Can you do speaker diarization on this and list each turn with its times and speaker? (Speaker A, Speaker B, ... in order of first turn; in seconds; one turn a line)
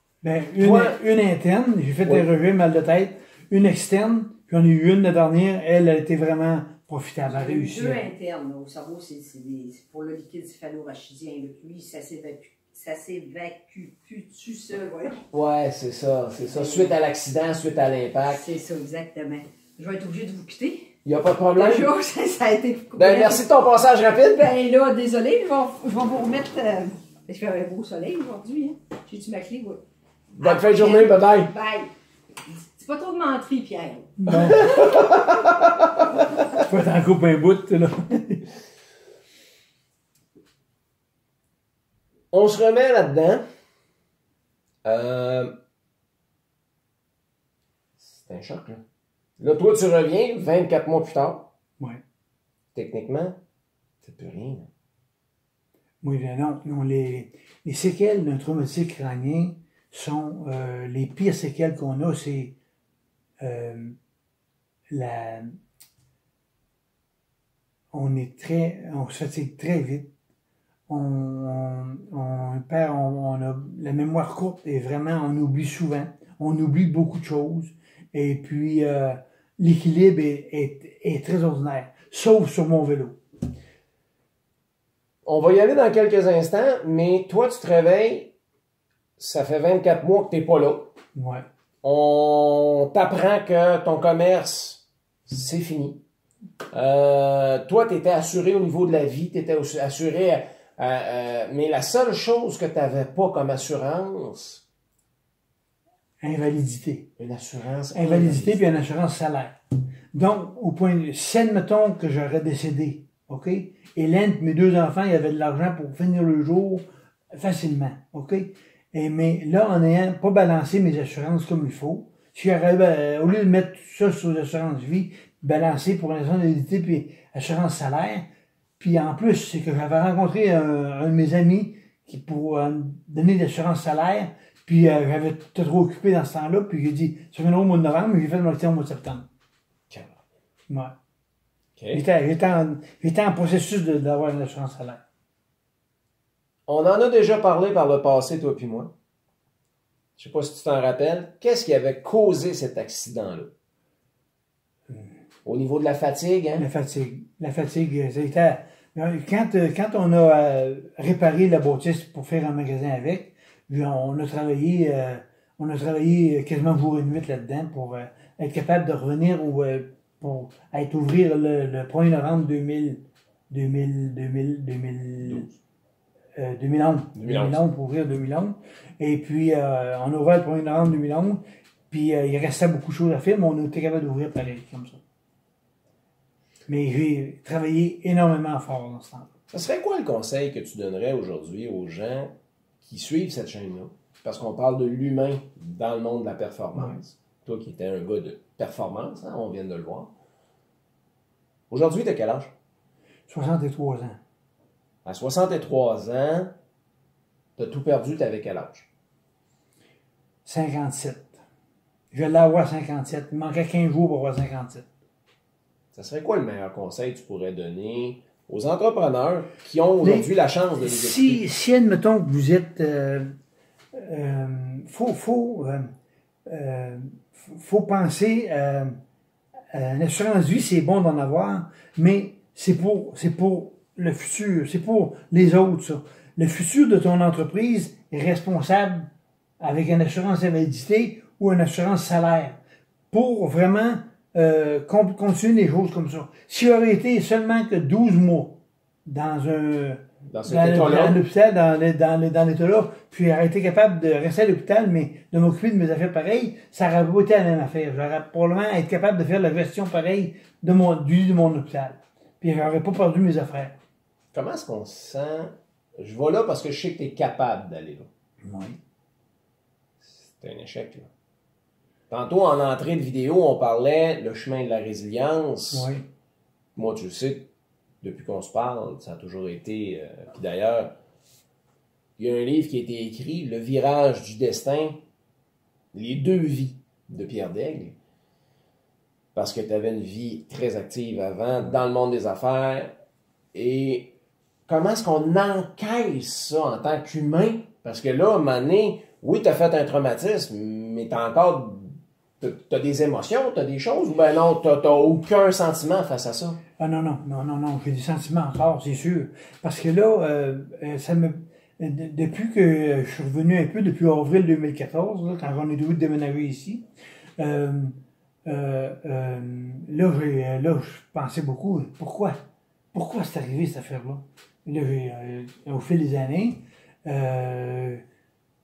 Speaker A: 0.2-8.0
Speaker B: 0.6-1.0
Speaker C: 7.3-15.2
Speaker B: 15.3-18.4
Speaker C: 16.5-16.9
Speaker C: 18.3-20.9
Speaker B: 21.0-21.9
Speaker C: 21.5-23.5
Speaker B: 22.9-24.5
Speaker C: 24.3-29.8
Speaker B: 30.3-31.5
Speaker C: 30.4-31.9
Speaker C: 32.5-35.5
Speaker A: 34.2-34.6
Speaker B: 34.3-35.9
Speaker A: 36.6-38.5
Speaker B: 42.3-43.4
Speaker B: 44.8-45.5
Speaker B: 48.0-48.8
Speaker B: 49.4-51.5
Speaker B: 52.7-53.4
Speaker B: 54.0-54.7
Speaker A: 56.0-62.5
Speaker A: 63.4-64.0
Speaker A: 64.9-65.5
Speaker A: 67.9-70.1
Speaker A: 70.9-83.2
Speaker B: 85.2-88.3
Speaker B: 89.2-90.9
Speaker A: 91.2-91.4
Speaker B: 91.8-96.0
Speaker B: 96.7-104.6
Speaker A: 106.2-107.1
Speaker B: 107.2-108.7
Speaker A: 107.9-109.5
Speaker A: 110.1-116.8
Speaker A: 117.3-128.2
Speaker A: 128.8-139.3
Speaker B: 139.9-140.2
Speaker B: 141.8-142.0
Speaker A: 141.9-145.0
Speaker B: 146.7-148.9
Speaker B: 150.2-153.5
Speaker B: 155.4-156.6
Speaker A: 156.6-175.5
Speaker B: 175.2-175.5
Speaker A: 176.3-185.0
Speaker B: 177.2-177.6
Speaker A: 186.7-189.3
Speaker B: 189.5-200.1
Speaker B: 201.7-202.5
Speaker A: 203.3-204.2
Speaker B: 205.0-206.5
Speaker B: 207.6-208.9
Speaker A: 210.4-211.3
Speaker A: 212.1-214.9
Speaker B: 215.9-221.4
Speaker A: 220.0-220.3
Speaker A: 220.8-223.3
Speaker A: 223.9-225.9
Speaker A: 226.5-228.9
Speaker A: 229.7-239.1
Speaker A: 239.6-242.6
Speaker A: 243.1-263.8
Speaker B: 250.3-251.2
Speaker B: 264.3-268.1
Speaker A: 268.4-268.8
Speaker B: 270.1-271.1
Speaker B: 272.1-275.9
Speaker A: 275.7-276.0
Speaker B: 276.8-277.5
Speaker B: 278.0-280.9
Speaker B: 282.2-285.0
Speaker B: 285.9-288.0
Speaker B: 289.3-292.9
Speaker B: 293.5-294.1
Speaker B: 294.7-306.6
Speaker A: 306.8-316.8
Speaker A: 317.4-322.4
Speaker A: 322.9-328.0